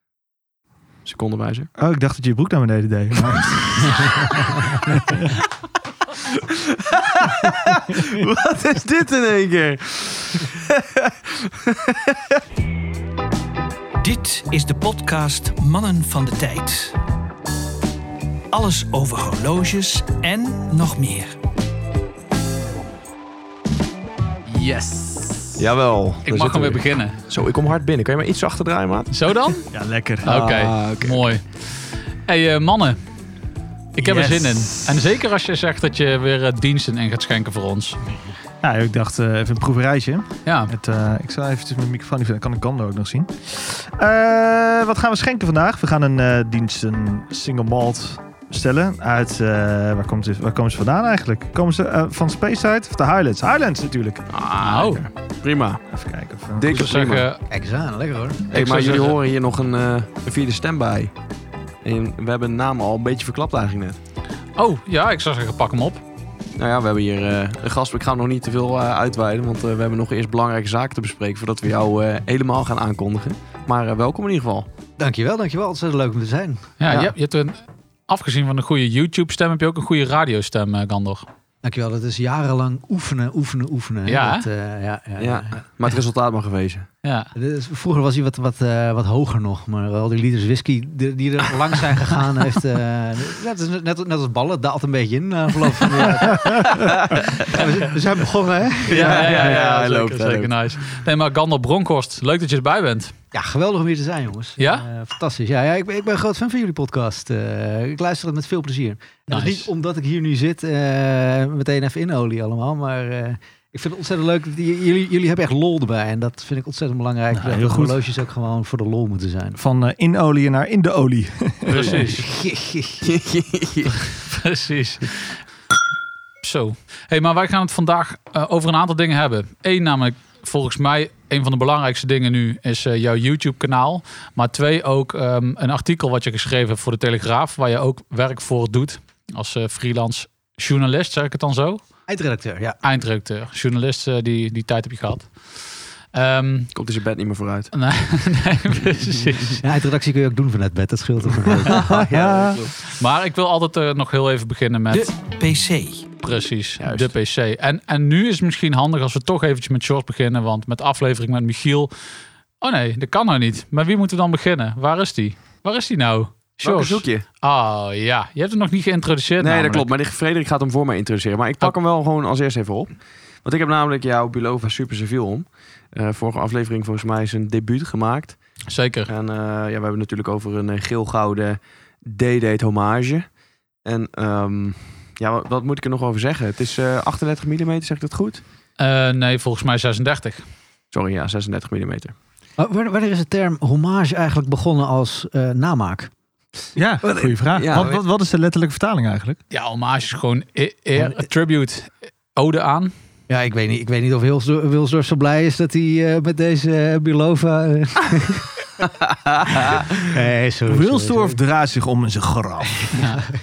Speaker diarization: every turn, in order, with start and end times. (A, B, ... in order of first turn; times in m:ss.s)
0:01.0-0:01.7 A
0:01.8-0:05.3 B
0:06.4-0:12.4 A
0:14.0-0:17.0 C
0:18.5-0:21.4 C
0:24.5-0:25.6 D
0:25.6-0:29.1 A
0:26.3-0:27.2 D
0:29.1-0:29.6 D
0:29.7-0:30.3 B
0:30.2-0:31.2 A
0:30.2-0:31.5 D
0:32.3-0:33.0 D
0:34.0-0:38.0 D
0:34.0-0:35.1 B
0:38.6-0:54.3 B
0:40.5-0:40.7 D
0:54.3-0:55.8 A
0:54.6-0:55.0 D
0:55.9-0:56.8 B
0:56.6-0:57.3 A
0:56.7-0:57.4 D
0:57.5-0:58.4 E
0:58.5-0:59.2 D
0:58.5-1:01.1 A
1:01.8-1:04.0 A
1:04.6-1:06.0 D
1:06.6-1:14.7 A
1:15.0-1:17.1 E
1:16.8-1:21.3 D
1:21.6-1:25.6 E
1:24.0-1:24.5 D
1:25.2-1:26.9 A
1:27.0-1:27.3 D
1:27.4-1:39.6 E
1:36.4-1:36.7 B
1:36.7-1:37.6 A
1:38.8-1:41.0 A
1:38.9-1:43.1 D
1:43.3-1:59.6 E
1:44.6-1:44.9 D
1:49.3-1:49.7 D
1:57.3-1:58.0 B
1:59.6-2:02.0 B
2:01.6-2:02.3 D
2:01.7-2:02.0 A
2:02.1-2:03.1 E
2:03.0-2:04.0 A
2:04.1-2:05.4 D
2:06.4-2:21.8 D
2:22.1-2:22.8 E
2:22.8-2:25.6 D
2:26.1-2:26.7 D
2:26.7-2:27.7 A
2:27.7-2:29.6 D
2:29.6-2:32.0 E
2:31.5-2:32.8 A
2:32.2-2:32.6 B
2:32.9-2:35.2 D
2:34.9-2:36.1 C
2:36.2-2:41.9 D
2:36.8-2:37.1 A
2:42.6-2:49.9 D
2:46.6-2:47.2 A
2:49.4-2:52.9 A
2:53.4-2:58.4 A
2:58.7-2:59.1 D
2:59.1-3:03.3 A
3:03.8-3:08.4 A
3:08.8-3:10.4 D
3:10.9-3:12.2 A
3:12.6-3:16.1 E
3:16.8-3:19.4 B
3:17.0-3:18.0 E
3:17.5-3:17.9 A
3:19.5-3:22.9 D
3:23.3-3:28.7 E
3:29.5-3:31.4 E
3:30.7-3:33.0 B
3:32.9-3:33.2 E
3:33.0-3:33.2 D